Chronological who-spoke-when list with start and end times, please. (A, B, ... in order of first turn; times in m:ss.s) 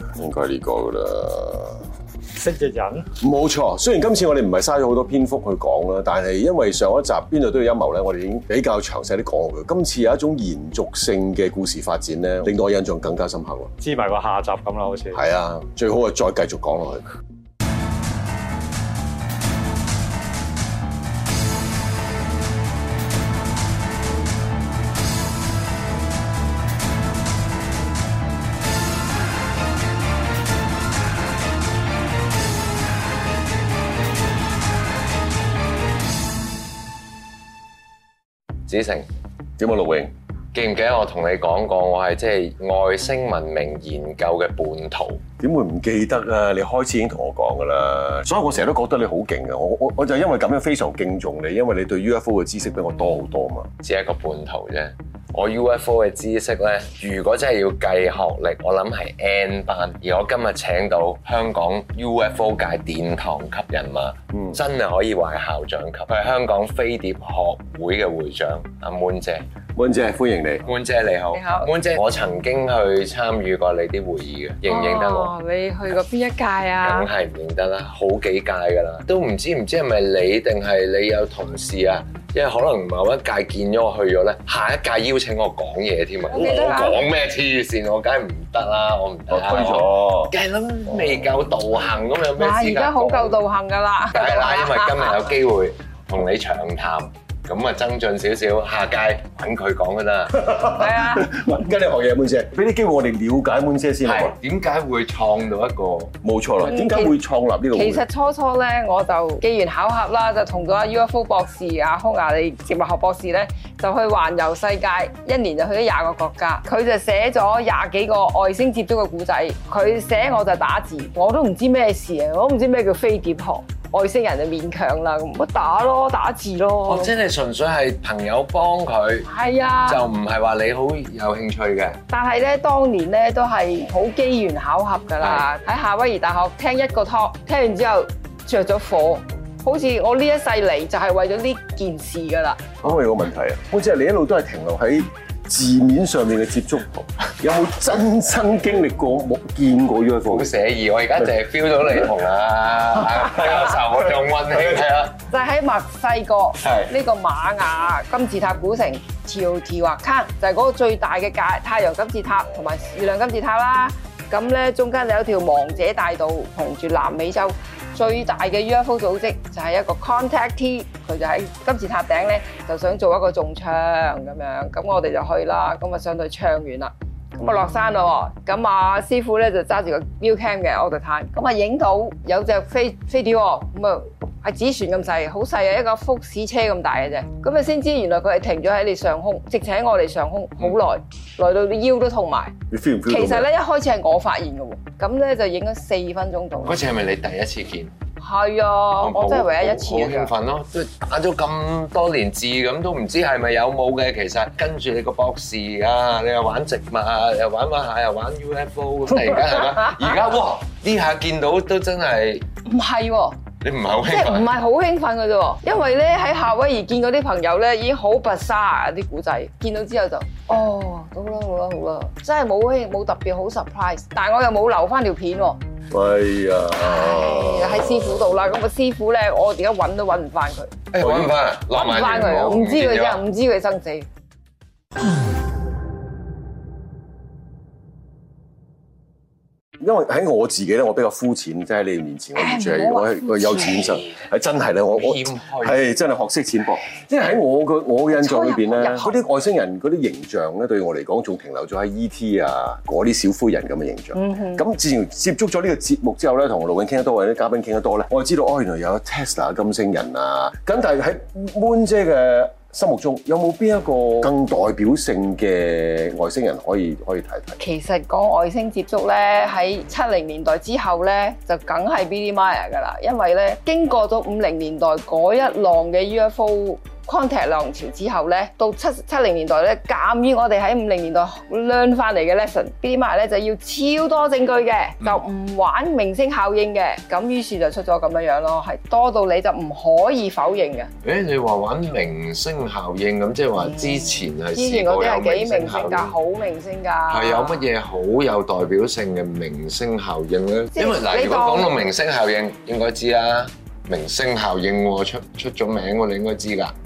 0:00.2-0:01.9 A
0:02.4-0:03.1 B
0:03.2-0:13.7 A
0:13.8-0:15.2 B
0:15.1-0:17.1 A
0:38.7-0:39.1 C
0:39.6-0:40.1 A
0:40.5-0:45.2 C
0:45.4-0:53.7 A
0:53.8-1:09.4 C
1:04.3-1:04.6 A
1:09.8-1:10.7 A
1:10.7-1:15.3 C
1:11.3-1:11.7 D
1:14.7-1:17.1 D
1:16.8-1:33.4 C
1:26.3-1:27.0 D
1:26.3-1:26.7 A
1:29.3-1:30.3 A
1:32.4-1:35.2 D
1:34.1-1:40.5 C
1:40.3-1:44.4 A
1:40.6-1:41.4 D
1:44.0-1:46.1 C
1:46.2-1:48.0 A
1:46.6-1:47.2 D
1:47.7-2:07.1 D
2:06.9-2:09.3 C
2:09.3-2:10.0 D
2:09.9-2:12.0 C
2:12.1-2:22.7 D
2:15.2-2:15.5 C
2:22.8-2:26.9 A
2:27.4-2:30.5 A
2:30.3-2:35.2 C
2:35.3-3:12.6 D
2:36.6-2:36.9 C
3:12.7-3:13.5 A
3:13.1-3:16.8 D
3:16.6-3:17.9 C
3:18.2-3:20.3 D
3:19.0-3:32.4 C
3:32.7-3:33.4 D
3:33.6-3:34.5 C
3:34.1-3:45.6 D
3:45.9-3:48.5 A
3:46.8-3:54.1 D
3:50.9-3:53.2 C
3:59.8-4:27.6 A
4:02.4-4:04.0 D
4:04.9-4:05.8 C
4:08.1-4:09.2 D
4:14.2-4:14.6 D
4:27.6-4:50.9 D
4:51.0-4:56.2 C
4:53.6-4:57.7 D
4:57.1-5:06.7 C
5:00.7-5:01.8 D